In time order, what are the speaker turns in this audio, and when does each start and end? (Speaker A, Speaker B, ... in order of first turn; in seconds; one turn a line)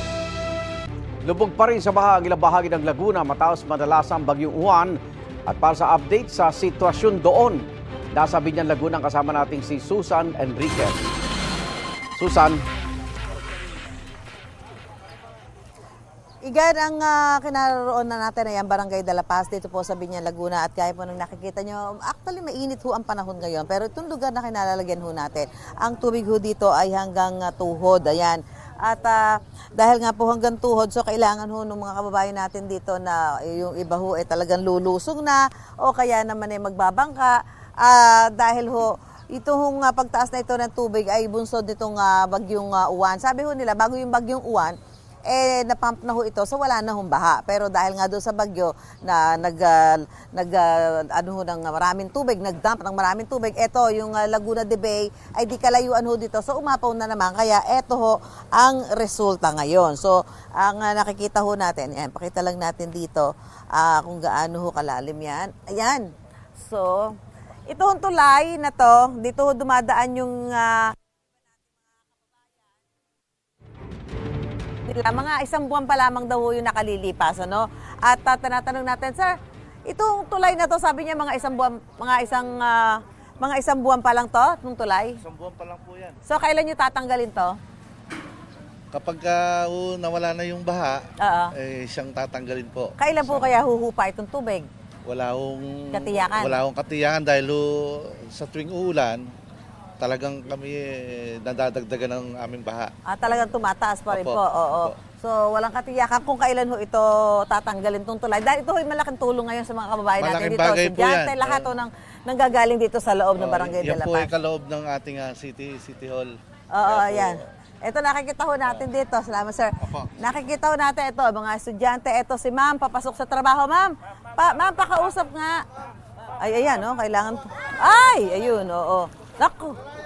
Speaker A: 1.2-11.1
Speaker A: 12.2-12.6
Speaker B: 16.5-44.8
Speaker B: 45.3-66.1
Speaker B: 66.6-67.1
Speaker B: 67.7-70.9
Speaker B: 74.9-79.3
Speaker B: 79.9-85.2
Speaker C: 85.2-86.2
Speaker B: 86.3-87.6
Speaker C: 88.9-91.0
Speaker B: 91.2-91.5
Speaker C: 91.5-93.5
Speaker B: 93.0-94.7
Speaker C: 95.1-99.2
Speaker B: 95.9-96.6
Speaker C: 100.0-102.9
Speaker B: 103.1-114.3
Speaker C: 104.1-105.0
Speaker C: 110.2-111.7
Speaker C: 113.4-116.3
Speaker B: 116.7-125.6
Speaker C: 116.8-117.4
Speaker B: 126.4-129.8